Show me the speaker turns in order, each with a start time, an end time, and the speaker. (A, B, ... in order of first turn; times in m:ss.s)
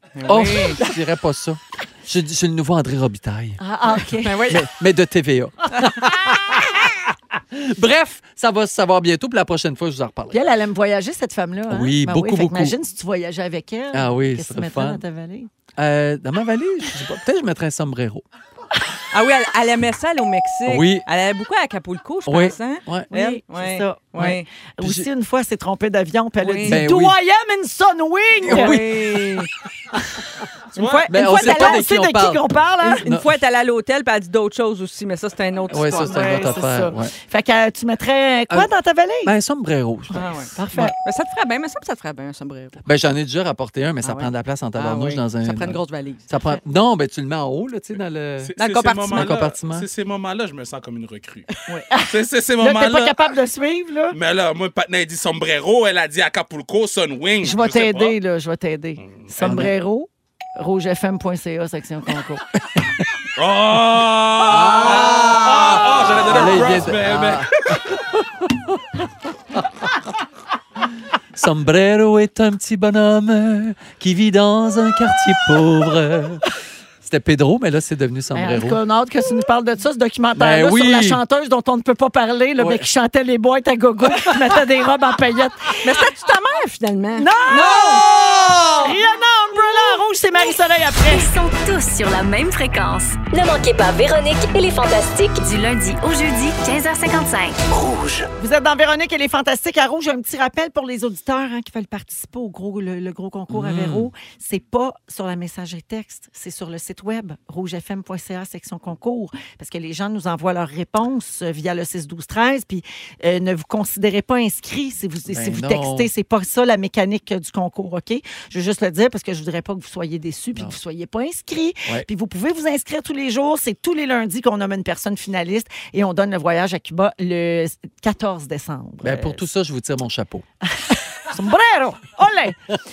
0:00.2-0:00.8 A
0:00.3-0:10.4 B
0:03.6-0:04.6 C
0:04.2-0:04.6 A
0:10.3-0:15.5 C
0:11.7-0:12.8 B
0:13.9-0:15.0 B
0:15.8-0:18.2 B
0:19.1-0:24.5 A
0:20.7-0:21.0 B
0:22.3-0:23.1 B
0:23.1-0:28.8 C
0:24.2-0:25.1 B
0:26.4-0:26.8 A
0:26.6-0:27.2 B
0:28.4-0:29.4 B
0:28.5-0:29.5 A
0:30.8-0:31.1 D
0:30.8-0:31.8 A
0:30.8-0:33.0 C
0:31.1-0:33.4 B
0:32.8-0:36.5 A
0:35.7-0:37.1 B
0:36.0-0:39.3 C
0:39.2-0:40.3 B
0:40.1-0:42.8 A
0:40.2-0:41.0 C
0:42.8-0:48.5 B
0:44.0-0:46.2 A
0:48.4-0:53.3 D
0:48.6-0:49.3 A
0:49.1-0:49.9 B
0:51.7-0:54.2 C
0:54.1-0:58.2 D
0:57.4-1:02.4 C
0:59.4-0:59.7 B
1:02.7-1:03.0 B
1:03.4-1:07.8 D
1:04.4-1:08.8 B
1:11.4-1:16.4 B
1:17.0-1:18.8 B
1:18.3-1:25.8 C
1:20.4-1:21.2 B
1:22.6-1:22.9 B
1:24.2-1:24.5 B
1:25.8-1:27.9 A
1:27.2-1:28.1 C
1:28.7-1:31.3 C
1:31.0-1:33.2 E
1:33.3-1:35.4 F
1:35.4-1:37.6 E
1:38.4-2:09.4 C
1:43.5-1:44.1 B
1:55.3-1:56.1 B
2:09.0-2:10.4 B
2:10.9-2:12.6 C